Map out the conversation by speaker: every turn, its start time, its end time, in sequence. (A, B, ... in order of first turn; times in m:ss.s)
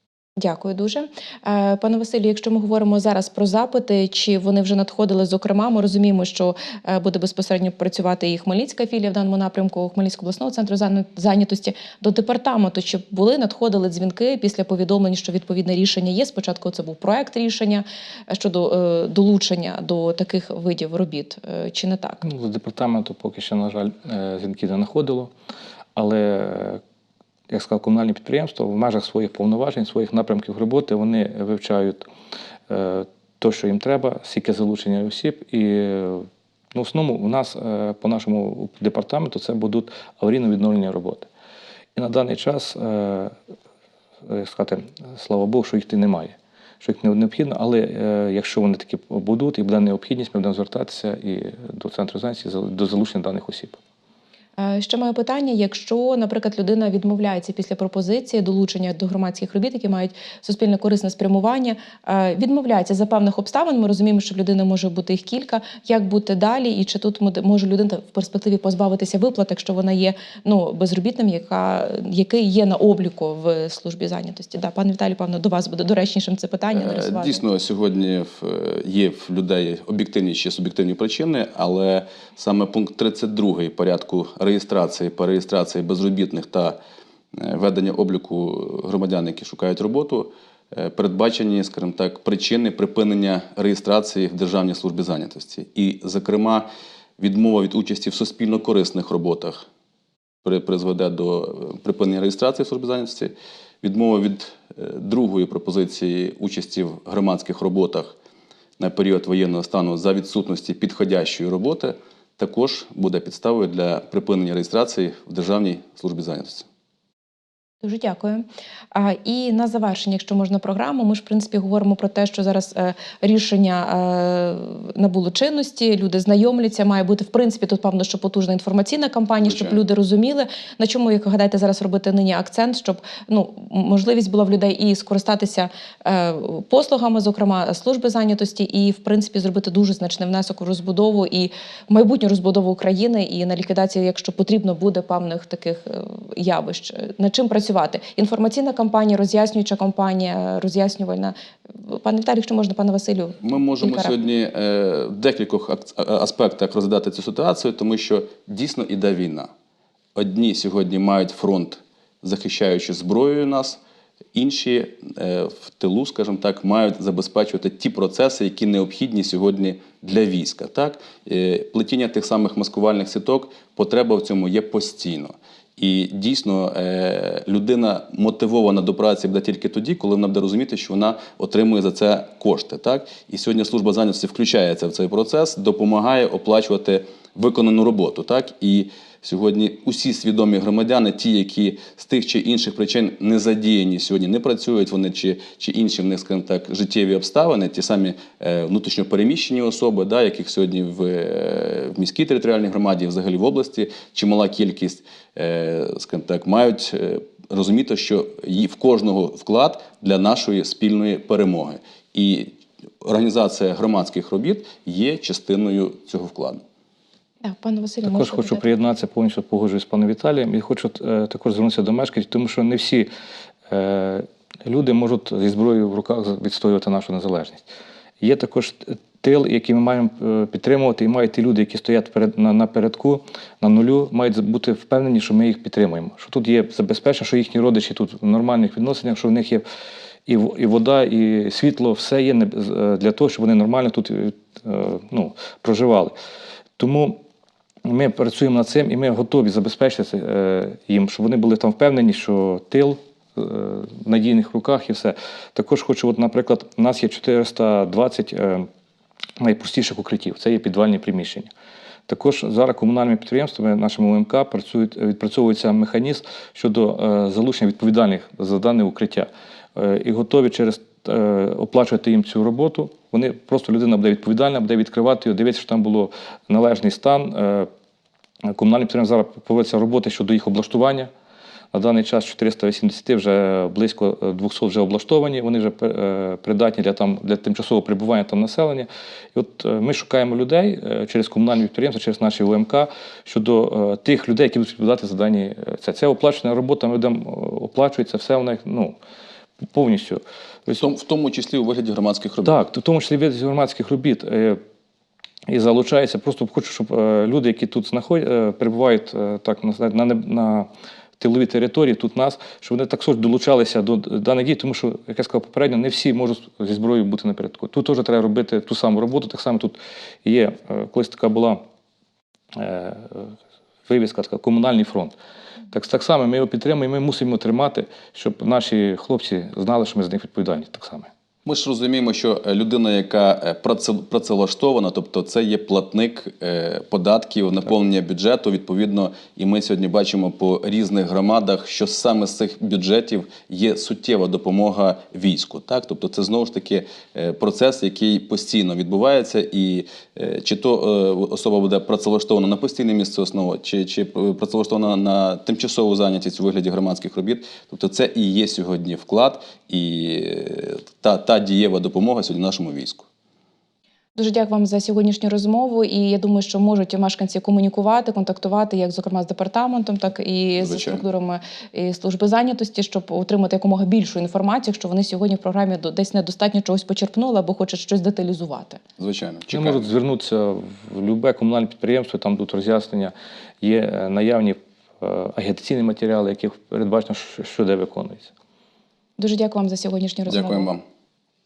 0:00.4-0:22.2 A
0:22.2-0:25.3 B
0:26.0-0:26.8 B
0:27.5-0:32.0 B
0:32.7-0:41.3 B
0:42.0-0:43.3 B
0:44.2-0:53.8 B
0:54.6-1:17.4 A
1:16.7-1:26.8 C
1:27.3-1:39.6 C
1:40.4-1:48.2 C
1:48.8-1:56.7 C
1:57.8-2:34.2 A
2:09.4-2:09.8 C
2:33.4-2:39.5 C
2:40.1-2:43.8 C
2:44.3-3:36.6 C
3:37.4-3:38.7 A
3:38.0-3:43.1 B
3:43.7-3:47.6 B
3:48.2-3:59.6 B
4:00.3-4:06.1 B
4:06.8-4:07.2 B
4:07.8-4:18.7 B
4:19.4-4:21.5 B
4:22.1-4:37.7 B
4:38.5-4:41.1 B
4:41.7-4:59.0 B
4:59.6-5:00.8 B
5:00.8-5:02.6 C
5:02.4-5:04.6 B
5:05.5-5:10.7 B
5:11.2-5:21.6 B
5:22.6-5:23.3 B
5:23.9-5:25.2 B
5:25.7-5:31.1 B
5:31.4-6:03.1 C
6:04.1-6:18.8 A
6:10.6-6:11.0 C
6:19.0-6:19.9 C
6:19.5-6:28.3 B
6:29.2-6:30.7 A
6:30.3-6:30.8 C